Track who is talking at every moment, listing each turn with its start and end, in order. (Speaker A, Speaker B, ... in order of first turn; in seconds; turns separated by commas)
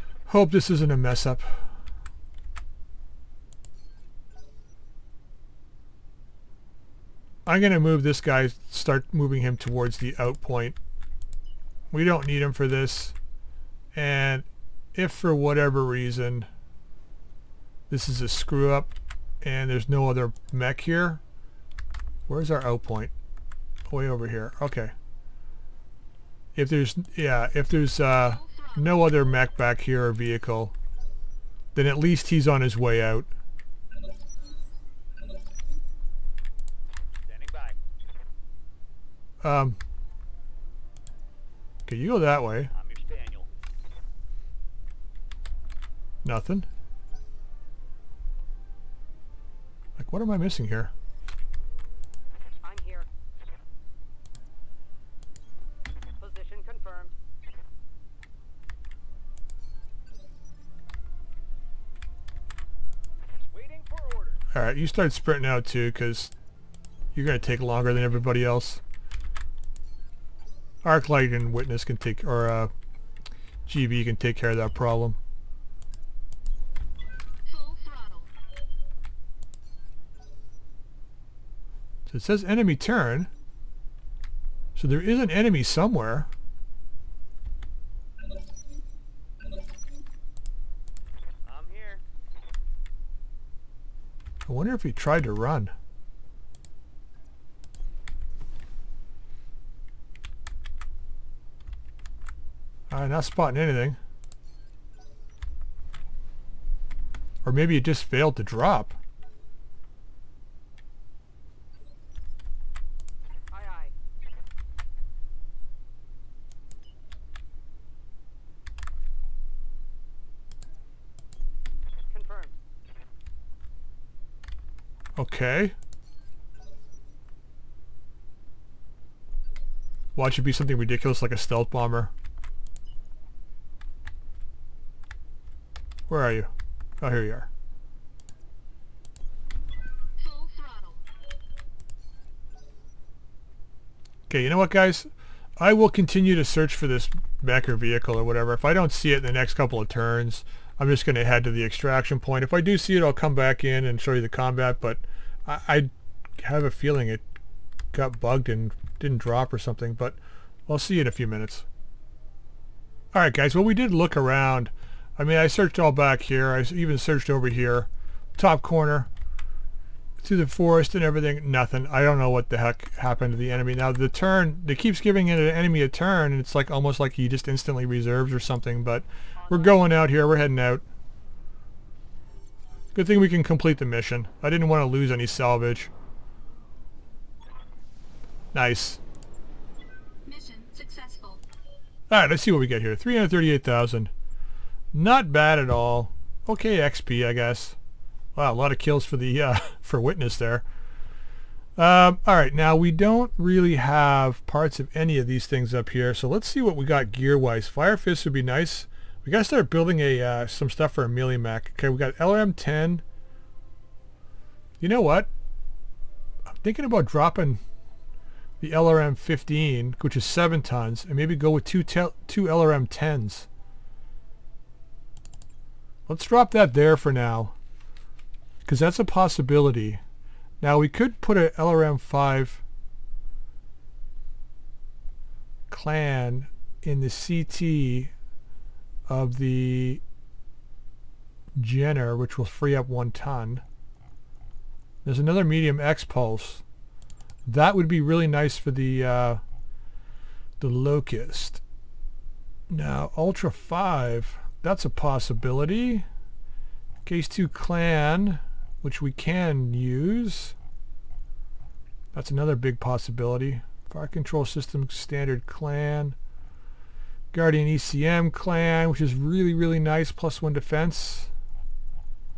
Speaker A: 0.3-1.6, Speaker A: 7.5-10.8, Speaker A: 11.9-13.1, Speaker A: 13.9-16.5, Speaker A: 17.9-18.9, Speaker A: 19.4-21.2, Speaker A: 22.3-23.1, Speaker A: 23.9-24.9, Speaker A: 26.5-30.7, Speaker B: 28.2-29.0, Speaker A: 31.7-33.3, Speaker C: 37.2-37.8, Speaker A: 39.4-39.8, Speaker A: 41.9-42.7, Speaker C: 42.7-43.5, Speaker A: 46.2-46.7, Speaker A: 50.0-50.9, Speaker C: 52.6-53.1, Speaker C: 56.2-57.1, Speaker C: 63.5-64.4, Speaker A: 64.5-66.3, Speaker A: 67.1-68.8, Speaker A: 70.8-72.7, Speaker A: 73.7-75.2, Speaker B: 77.4-78.3, Speaker A: 82.1-83.3, Speaker A: 84.7-86.3, Speaker C: 91.4-92.0, Speaker A: 94.5-95.7, Speaker A: 102.9-104.0, Speaker A: 107.4-109.0, Speaker C: 113.5-113.9, Speaker C: 122.1-122.6, Speaker A: 125.2-125.7, Speaker A: 130.1-132.1, Speaker A: 136.1-136.5, Speaker A: 137.0-137.5, Speaker B: 140.2-141.0, Speaker A: 144.3-157.2, Speaker A: 157.9-160.2, Speaker A: 160.7-161.7, Speaker A: 163.1-169.1, Speaker A: 170.2-180.8, Speaker C: 179.4-180.0, Speaker A: 182.9-185.9, Speaker A: 188.5-189.0, Speaker B: 190.2-191.4, Speaker A: 192.1-194.1, Speaker A: 194.9-197.8, Speaker A: 198.3-200.6, Speaker A: 201.8-213.0, Speaker A: 214.8-215.3, Speaker A: 216.5-217.6, Speaker A: 218.6-223.5, Speaker A: 226.1-227.5, Speaker A: 228.7-230.0, Speaker A: 230.6-232.6, Speaker A: 235.7-238.1, Speaker A: 239.1-240.0, Speaker A: 241.6-243.6, Speaker A: 245.0-246.6, Speaker A: 247.5-249.4, Speaker A: 250.6-251.6, Speaker A: 252.7-256.1, Speaker A: 257.1-260.5, Speaker A: 262.1-266.1, Speaker A: 267.3-271.3